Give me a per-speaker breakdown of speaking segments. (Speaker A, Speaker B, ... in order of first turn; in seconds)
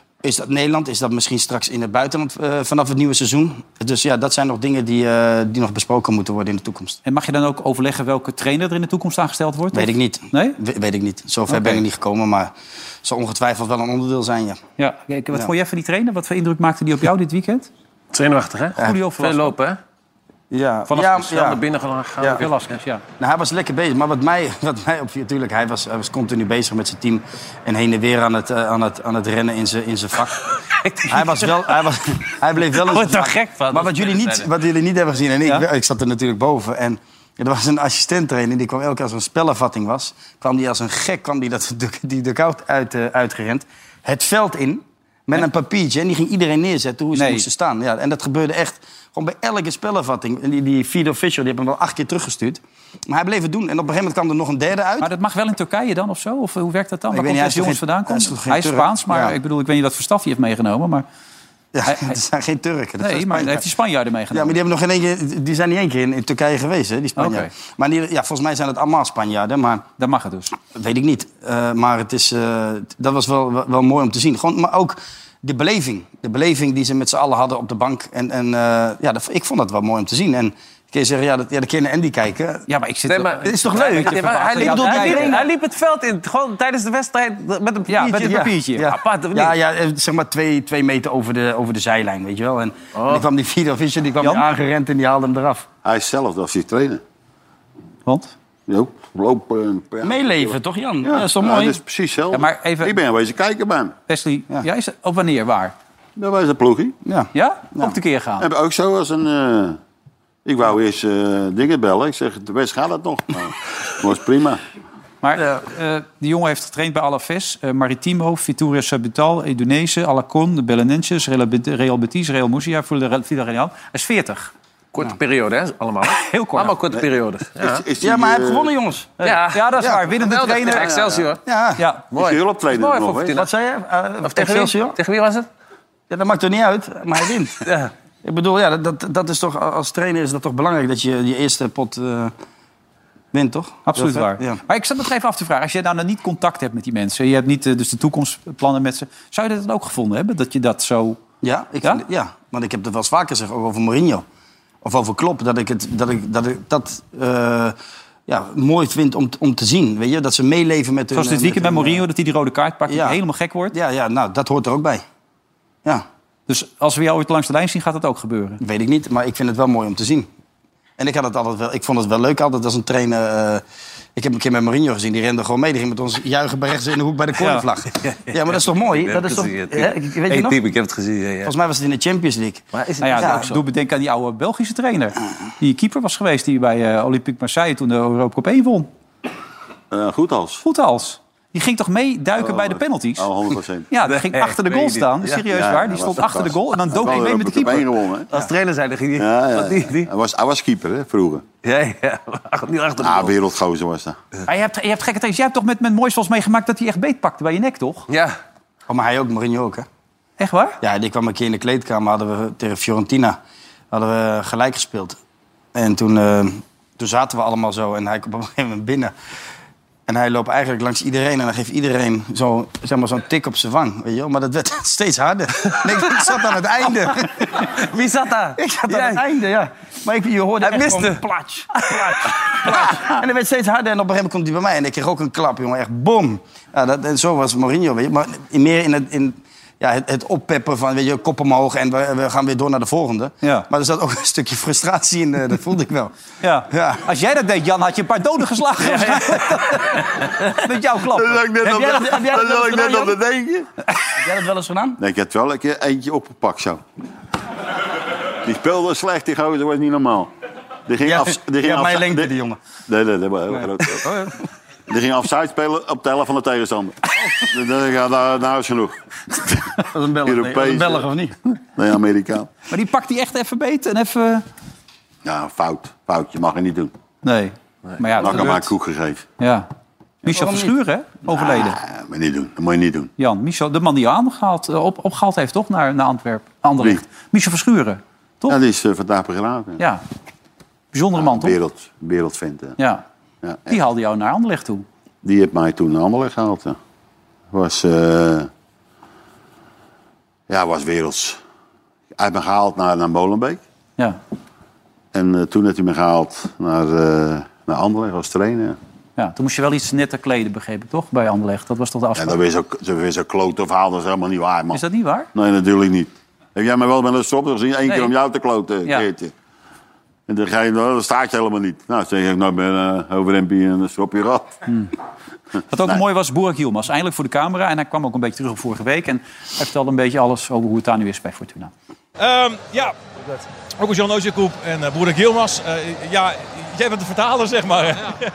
Speaker A: 0.2-7.0, 9.7-12.5, 13.0-14.6, 20.5-21.6, 22.2-22.4, 23.2-30.4, 31.1-55.1, 57.1-59.4, 61.7-63.7, 64.3-69.9, 70.7-82.7, 83.4-85.4, 88.1-95.7, 100.0-101.8, 107.0-108.0, 128.0-129.1, 131.4-131.8, 133.3-135.0, 136.1-137.7, 138.2-142.3, 143.3-144.6, 151.4-154.2, 154.8-157.8, 158.3-162.0, 162.9-163.2, 163.7-165.0, 168.6-170.3, 171.0-173.6, 174.2-180.6, 181.4-183.5, 208.9-209.9, 210.8-213.4, 213.9-215.2, 215.7-219.1, 220.1-227.7, 228.6-246.1, 246.7-247.0, 251.6-253.2, 254.2-255.0, 261.0-262.6, 263.5-264.3, 269.9-271.4, 280.3-280.7
Speaker B: 7.0-10.6, 11.5-11.8, 14.8-17.7, 18.8-19.5, 20.9-21.2, 22.4-23.0, 47.1-47.5, 55.0-61.0, 61.9-62.2, 63.0-64.6, 67.2-67.5, 70.0-70.5, 82.7-85.4, 87.9-88.9, 94.2-94.5, 98.1-98.3, 102.3-103.0, 104.1-105.8, 107.3-108.5, 115.2-124.5, 126.2-126.7, 129.2-130.9, 131.8-132.1, 143.9-151.2, 161.1-163.8, 166.5-168.6, 177.4-177.7, 183.0-188.9, 190.6-193.3, 193.9-197.9, 204.5-208.1, 210.4-210.8, 243.4-243.7, 246.4-252.1, 272.7-274.4, 277.2-278.7, 279.4-279.7, 280.3-281.8, 283.2-288.6, 290.9-291.6, 292.8-293.0, 293.7-294.9, 309.2-312.4, 314.7-315.3, 325.7-331.7
Speaker C: 18.1-19.8, 21.2-22.6, 30.8-31.7, 32.7-34.5, 83.1-89.6, 93.0-93.3, 124.9-127.8, 129.2-131.4, 132.1-133.5, 134.2-135.5, 137.6-137.9, 178.0-181.5, 182.7-183.6, 194.1-195.4, 198.3-200.1, 201.6-203.3, 208.1-208.3, 227.6-229.2, 230.6-233.0
Speaker D: 95.8-97.0, 98.7-100.5, 101.0-104.0, 106.2-107.0, 108.4-109.8, 110.5-114.6, 127.6-128.7, 130.8-131.3, 132.1-133.3, 189.9-190.6, 192.4-193.9, 195.5-198.3, 199.2-201.4, 203.0-204.2, 251.1-253.7, 255.0-256.8, 258.4-260.3, 260.9-262.3, 262.9-264.1, 264.9-269.7, 270.2-272.5, 275.2-276.9, 278.2-279.2, 281.3-283.1, 288.5-289.8, 291.1-292.8, 293.4-293.8, 295.2-296.8, 297.5-298.5, 300.5-301.4, 302.2-303.6, 305.1-308.8, 312.2-314.8, 315.3-319.3, 320.3-324.6
Speaker E: 332.2-332.9, 333.8-338.2